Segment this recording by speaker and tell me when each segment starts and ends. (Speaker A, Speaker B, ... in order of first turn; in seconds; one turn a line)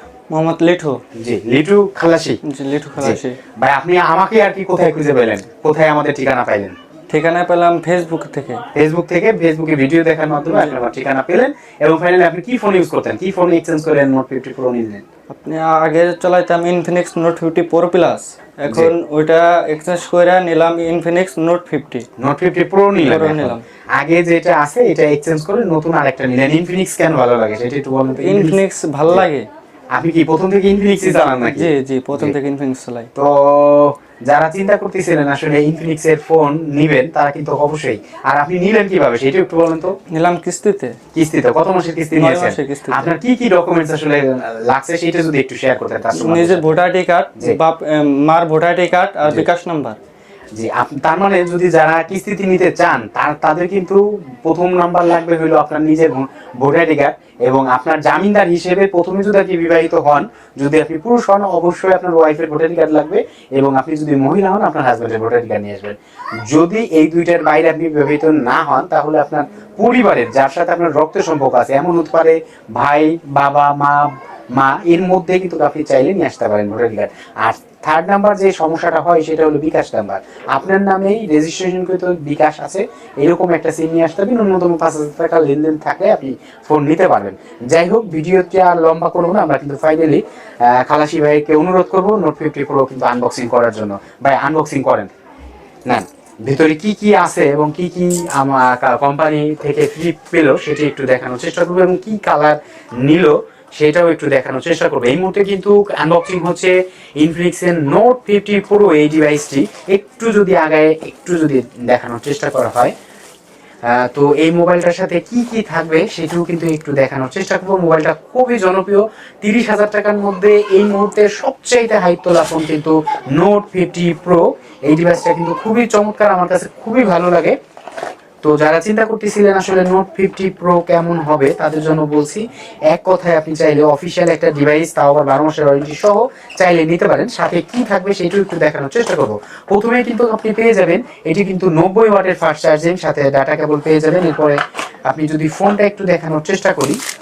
Speaker A: 0.3-1.0
Speaker B: 1.2-2.4
Speaker A: 2.4-3.4
Speaker B: 3.0-6.8
Speaker A: 7.1-8.6
Speaker B: 8.8-15.0
Speaker A: 10.5-10.8
Speaker A: 15.3-22.1
Speaker B: 18.7-18.9
Speaker B: 22.2-29.2
Speaker A: 23.0-23.6
Speaker A: 28.2-29.5
Speaker B: 29.9-32.4
Speaker A: 31.0-33.1
Speaker B: 33.1-40.0
Speaker A: 40.1-41.0
Speaker B: 41.1-46.8
Speaker A: 42.1-43.1
Speaker A: 46.1-50.0
Speaker B: 50.5-66.0
Speaker B: 66.5-95.1
Speaker B: 95.9-112.9
Speaker B: 113.8-127.6
Speaker B: 128.4-147.0